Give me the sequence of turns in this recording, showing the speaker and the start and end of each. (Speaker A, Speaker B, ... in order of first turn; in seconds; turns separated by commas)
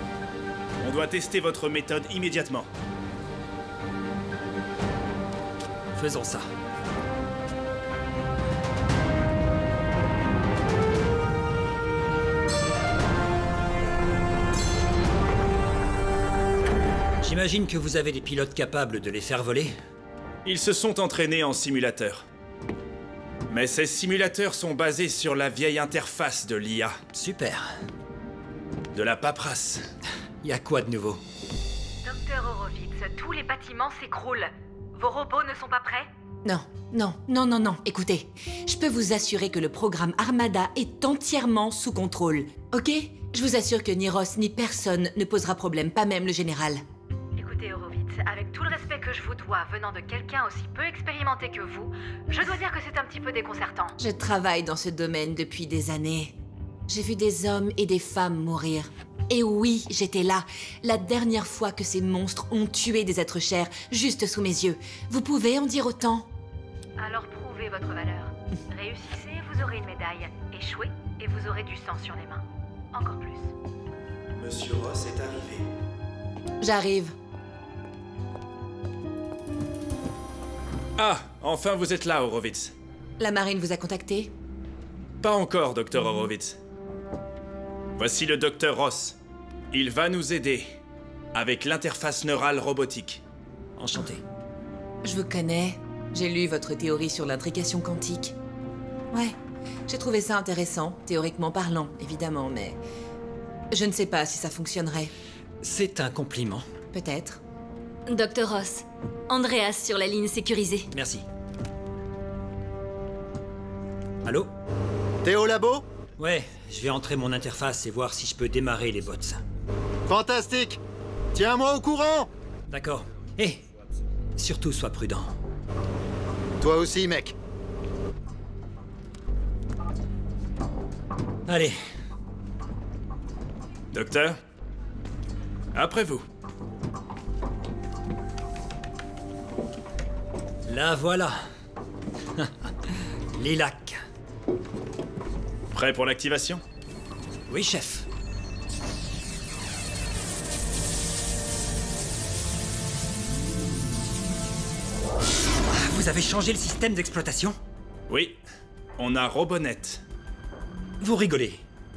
Speaker A: 0.8-2.7, Speaker B: 5.9-6.5, Speaker B: 17.2-19.8, Speaker A: 20.4-22.2, Speaker A: 23.5-27.0, Speaker B: 27.1-27.7, Speaker A: 28.9-29.9, Speaker B: 30.4-31.2, Speaker C: 32.0-36.1, Speaker D: 36.4-46.8, Speaker C: 47.4-53.9, Speaker D: 54.0-56.4, Speaker D: 56.9-66.3, Speaker C: 67.0-73.5, Speaker A: 74.3-75.6, Speaker D: 76.6-77.1, Speaker A: 81.0-82.7, Speaker D: 83.2-84.3, Speaker A: 85.2-86.6, Speaker A: 88.0-89.2, Speaker A: 89.7-90.7, Speaker A: 91.3-93.2, Speaker B: 93.8-94.2, Speaker D: 95.0-98.3, Speaker D: 99.1-99.4, Speaker D: 99.9-102.8, Speaker D: 103.7-105.1, Speaker B: 105.6-106.6, Speaker D: 106.9-107.4, Speaker E: 108.1-110.9, Speaker B: 110.9-111.2, Speaker B: 114.2-114.5, Speaker F: 115.2-115.8, Speaker B: 116.2-119.4, Speaker F: 120.1-120.8, Speaker F: 121.3-122.3, Speaker B: 122.7-123.6, Speaker B: 124.4-125.3, Speaker F: 126.6-127.3, Speaker B: 131.5-131.8, Speaker A: 133.9-134.4, Speaker A: 135.7-136.2, Speaker B: 140.7-141.4, Speaker B: 142.4-142.7, Speaker B: 143.3-144.0, Speaker A: 145.7-146.6, Speaker B: 147.5-148.1, Speaker B: 155.7-157.6, Speaker A: 158.1-158.4, Speaker A: 159.0-160.0, Speaker B: 161.0-161.6